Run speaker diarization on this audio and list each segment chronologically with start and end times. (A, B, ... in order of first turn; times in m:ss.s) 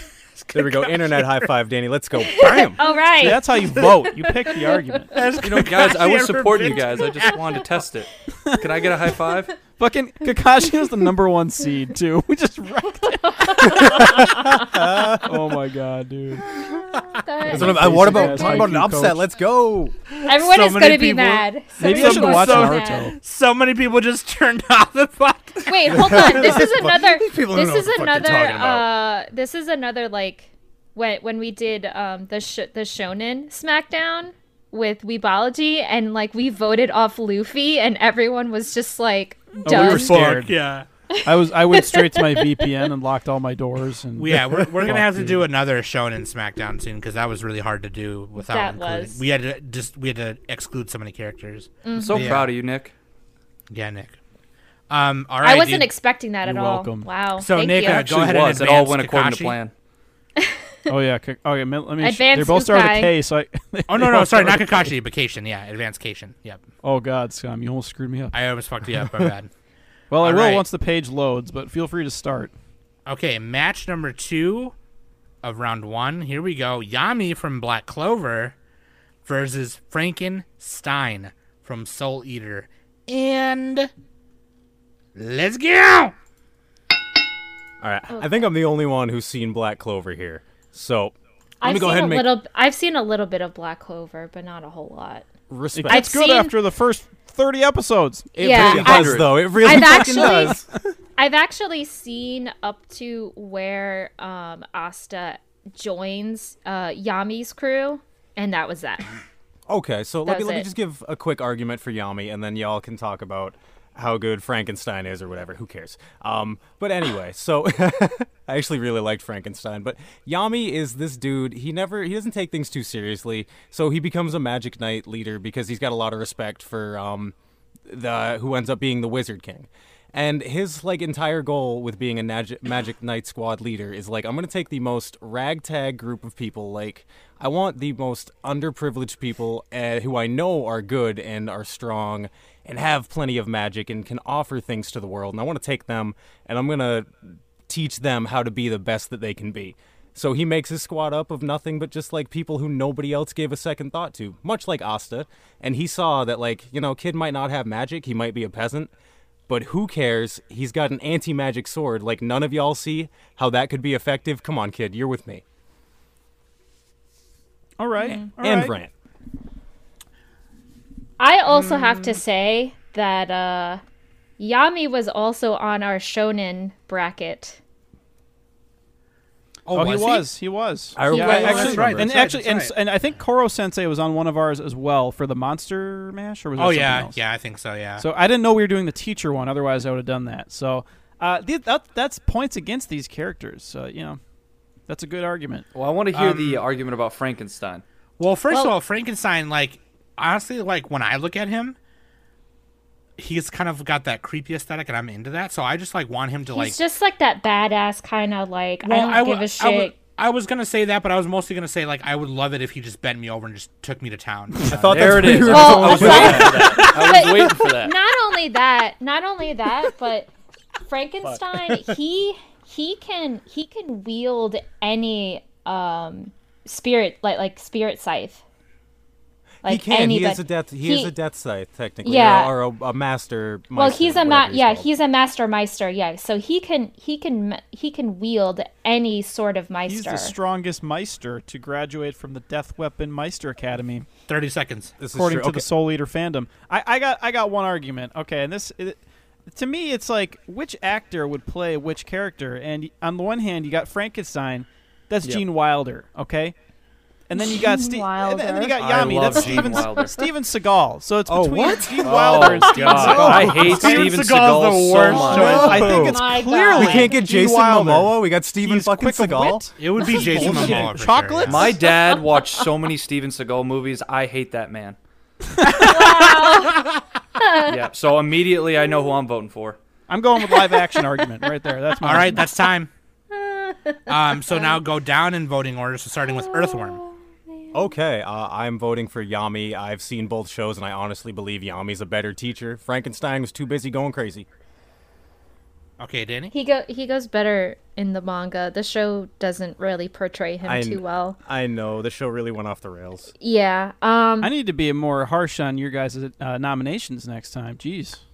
0:00.4-0:01.5 A
0:00.5-0:02.8 B
0:02.2-0:05.0 C
0:02.4-0:02.7 A
0:03.1-0:05.1 D
0:05.1-0:07.6 A
0:05.4-0:09.5 E
0:09.8-0:14.3 D
0:13.0-0:15.1 C
0:13.7-0:15.4 B
0:15.2-0:16.5 D
0:16.6-0:18.7 C
0:17.4-0:19.2 D
0:17.5-0:20.0 B
0:20.1-0:26.2 A
0:20.3-0:23.1 C
0:21.8-0:23.2 D
0:25.7-0:40.1 C
0:25.9-0:28.9 B
0:39.6-0:40.5 D
0:39.6-0:40.9 A
0:41.1-0:42.8 C
0:41.2-0:45.4 D
0:44.2-0:52.5 A
0:48.4-0:49.2 C
0:51.8-0:52.4 C
0:51.9-0:52.9 E
0:53.7-0:54.2 A
0:54.9-0:55.9 A
0:55.4-0:58.1 C
0:56.4-0:57.1 D
0:57.4-0:59.6 A
0:57.8-0:59.7 E
1:00.4-1:00.9 C
1:00.9-1:04.9 D
1:02.0-1:03.1 C
1:03.9-1:06.6 A
1:06.8-1:08.4 D
1:08.3-1:09.5 A
1:09.0-1:09.3 B
1:10.1-1:12.5 D
1:10.2-1:10.6 A
1:13.1-1:14.7 A
1:15.4-1:18.6 A
1:19.2-1:23.9 A
1:25.1-1:26.1 A
1:27.8-1:32.4 B
1:28.1-1:28.5 C
1:31.6-1:35.3 C
1:35.5-1:36.1 B
1:35.7-1:39.0 D
1:35.9-1:36.5 C
1:38.4-1:40.6 C
1:38.4-1:39.4 E
1:38.4-1:40.7 B
1:39.7-1:40.6 D
1:41.2-1:49.1 C
1:49.7-2:07.4 B
1:50.3-1:50.7 C
2:07.9-2:38.9 B
2:39.5-2:45.4 B
2:47.8-2:48.7 D
2:48.4-2:48.9 B
2:51.2-2:53.8 C
2:51.7-2:52.2 A
2:54.4-2:57.6 C
2:59.6-3:00.3 A
2:59.7-3:07.2 D
3:01.0-3:02.1 B
3:01.1-3:01.7 C
3:01.1-3:02.8 A
3:06.6-3:08.1 A
3:08.0-3:14.2 D
3:14.9-3:15.7 D
3:15.8-3:17.8 E
3:16.1-3:16.6 A
3:18.2-3:21.8 A
3:23.2-3:26.8 A
3:26.5-3:30.0 C
3:28.8-3:35.0 A
3:34.6-3:37.1 B
3:34.8-3:38.0 E
3:35.4-3:40.3 C
3:40.8-3:48.4 C
3:49.6-3:51.1 C
3:49.6-3:54.9 B
3:52.0-3:52.5 C
3:53.8-4:00.4 C
3:59.9-4:04.1 D
4:04.3-4:05.0 A
4:05.0-4:05.7 B
4:05.1-4:16.6 D
4:17.3-4:24.1 D
4:17.3-4:20.3 C
4:18.8-4:20.2 E
4:21.3-4:24.1 B
4:22.0-4:25.8 E
4:22.8-4:23.4 C
4:23.4-4:26.0 A
4:25.0-4:27.3 C
4:25.3-4:29.7 B
4:25.4-4:31.8 D
4:29.8-4:31.6 A
4:30.1-4:30.7 C
4:30.4-4:30.9 B
4:31.5-4:35.0 E
4:31.7-4:32.5 C
4:35.6-4:35.9 D
4:35.6-4:37.0 A
4:35.8-4:37.8 C
4:37.6-4:39.8 E
4:40.1-4:42.5 D
4:40.5-4:41.0 C
4:42.0-4:42.9 A
4:43.3-4:44.8 C
4:44.1-4:47.0 A
4:46.3-4:47.8 C
4:47.7-4:54.5 B
4:56.0-4:56.5 A
4:56.5-5:01.4 C
5:00.6-5:03.3 B
5:03.4-5:04.5 C
5:04.4-5:08.2 D